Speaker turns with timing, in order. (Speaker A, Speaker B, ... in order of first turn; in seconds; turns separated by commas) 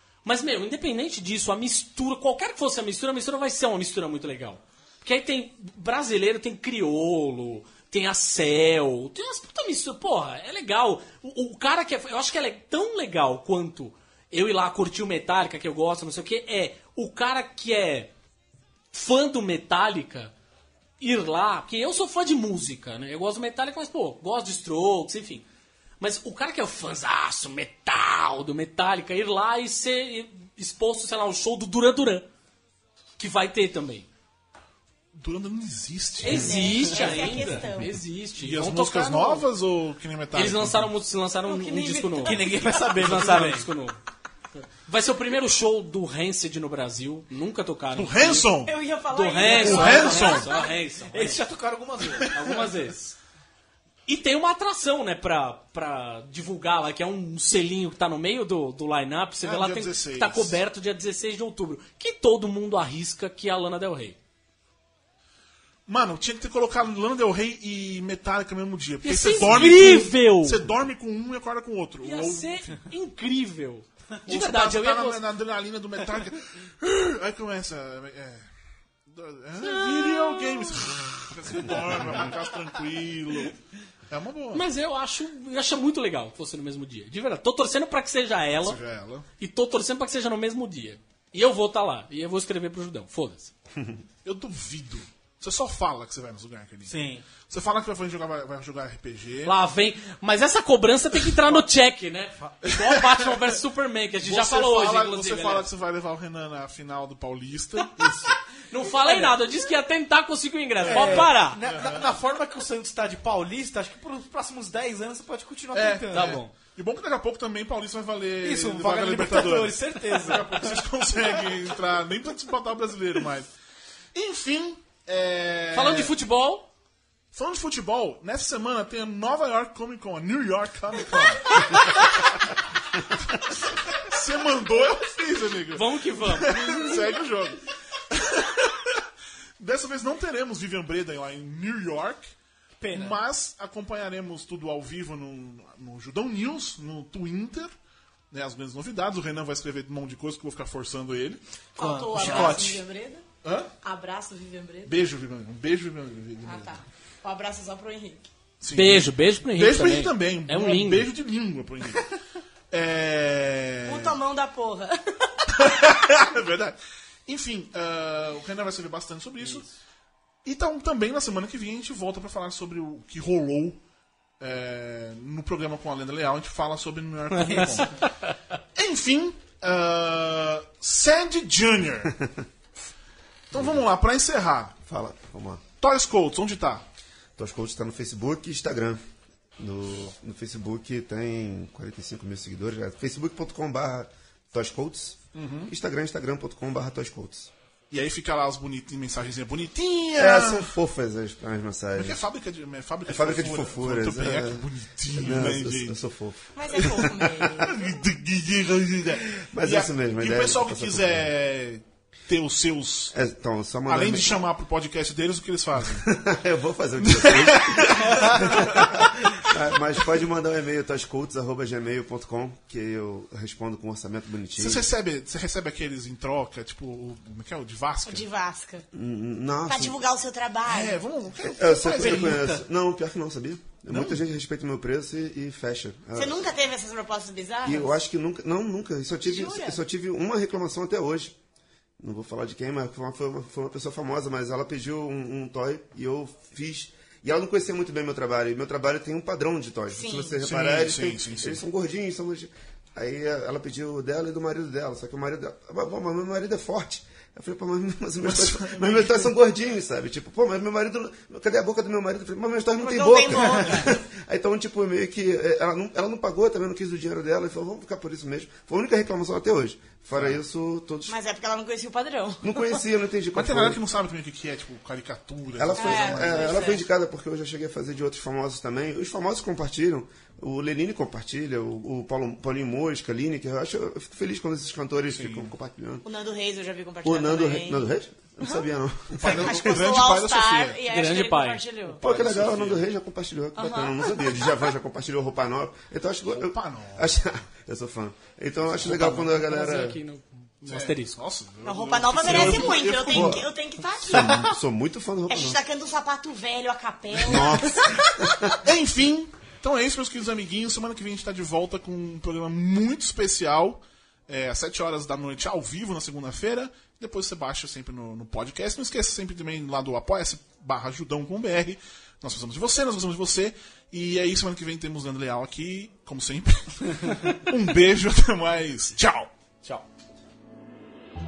Speaker A: 0.2-18.1, Speaker A: 18.9-20.3, Speaker A: 21.0-25.4, Speaker A: 26.0-32.2, Speaker A: 33.2-34.1, Speaker B: 35.1-36.6, Speaker A: 36.2-39.5, Speaker C: 36.2-38.0, Speaker B: 37.3-37.9, Speaker B: 38.4-40.9, Speaker A: 40.3-44.0, Speaker C: 41.4-42.9, Speaker D: 42.2-43.7, Speaker A: 44.5-48.5, Speaker B: 47.9-48.7, Speaker C: 48.6-50.7, Speaker A: 49.1-51.4, Speaker B: 49.5-50.5, Speaker D: 51.1-52.4, Speaker A: 52.2-53.2, Speaker A: 54.1-64.2, Speaker B: 59.4-60.6, Speaker B: 65.9-72.7, Speaker A: 69.0-70.6, Speaker A: 72.0-75.2, Speaker B: 74.2-78.5, Speaker B: 79.1-84.7, Speaker A: 79.6-80.9, Speaker A: 84.5-88.8, Speaker B: 88.6-89.3, Speaker A: 89.4-93.5, Speaker B: 94.2-96.9, Speaker D: 96.8-97.2, Speaker B: 97.5-99.5, Speaker A: 99.4-105.7, Speaker B: 102.8-103.3, Speaker B: 104.2-108.3, Speaker A: 108.7-111.6, Speaker D: 108.9-109.3, Speaker D: 110.8-116.4, Speaker B: 110.8-112.1, Speaker B: 115.7-123.5, Speaker A: 116.1-116.5, Speaker D: 118.4-120.8, Speaker B: 124.1-126.1, Speaker A: 125.7-126.7, Speaker B: 127.3-132.0, Speaker B: 133.9-139.0, Speaker A: 135.7-136.9, Speaker B: 139.6-142.2, Speaker D: 142.8-143.2, Speaker B: 142.9-147.7, Speaker B: 148.3-151.4, Speaker C: 151.8-153.2, Speaker D: 151.8-152.8, Speaker B: 152.1-152.6, Speaker B: 153.4-153.7, Speaker C: 153.8-154.9, Speaker B: 154.8-156.7, Speaker C: 156.4-158.3, Speaker B: 158.6-162.0, Speaker A: 158.7-161.1, Speaker B: 162.7-164.2, Speaker C: 163.8-165.7, Speaker B: 165.5-169.7, Speaker B: 170.4-173.8, Speaker B: 174.4-178.0, Speaker D: 177.5-177.8, Speaker A: 177.5-178.3, Speaker B: 178.7-182.2, Speaker B: 183.5-184.7, Speaker E: 183.5-183.8, Speaker E: 184.8-185.6, Speaker B: 185.8-186.8, Speaker E: 187.4-189.0, Speaker E: 189.6-197.5, Speaker B: 195.3-195.7, Speaker B: 197.9-200.8, Speaker E: 200.2-202.2, Speaker B: 202.0-206.0, Speaker E: 203.1-206.4, Speaker C: 206.5-208.0, Speaker B: 206.7-213.1, Speaker E: 209.1-211.3, Speaker E: 213.1-214.4, Speaker B: 213.9-216.1, Speaker E: 215.9-224.8, Speaker B: 217.0-219.0, Speaker B: 224.6-228.3, Speaker C: 228.1-228.9, Speaker E: 228.9-230.0, Speaker C: 229.7-231.0, Speaker B: 230.7-232.5, Speaker E: 231.5-236.5, Speaker D: 231.8-232.6, Speaker B: 233.9-234.2, Speaker C: 236.1-237.9, Speaker E: 237.6-241.3, Speaker C: 239.2-239.8, Speaker E: 242.0-271.2, Speaker C: 249.9-250.4, Speaker B: 250.4-251.6, Speaker B: 258.2-259.3, Speaker C: 262.8-263.9, Speaker B: 270.1-270.4, Speaker C: 271.1-272.8, Speaker E: 272.4-273.8, Speaker B: 273.3-276.6, Speaker E: 275.5-286.0, Speaker C: 275.7-276.8, Speaker B: 285.1-285.5, Speaker C: 286.0-287.9, Speaker E: 287.0-289.8, Speaker B: 289.1-290.8, Speaker C: 289.2-292.0, Speaker A: 290.9-291.6, Speaker B: 291.9-292.9, Speaker E: 292.0-300.0, Speaker C: 293.6-294.7, Speaker B: 296.3-297.1, Speaker B: 298.6-299.2, Speaker A: 298.8-301.2, Speaker B: 300.7-303.5, Speaker C: 301.6-304.5, Speaker E: 302.2-303.5, Speaker E: 304.0-305.6, Speaker C: 305.3-308.3, Speaker E: 307.2-308.6, Speaker B: 308.6-329.3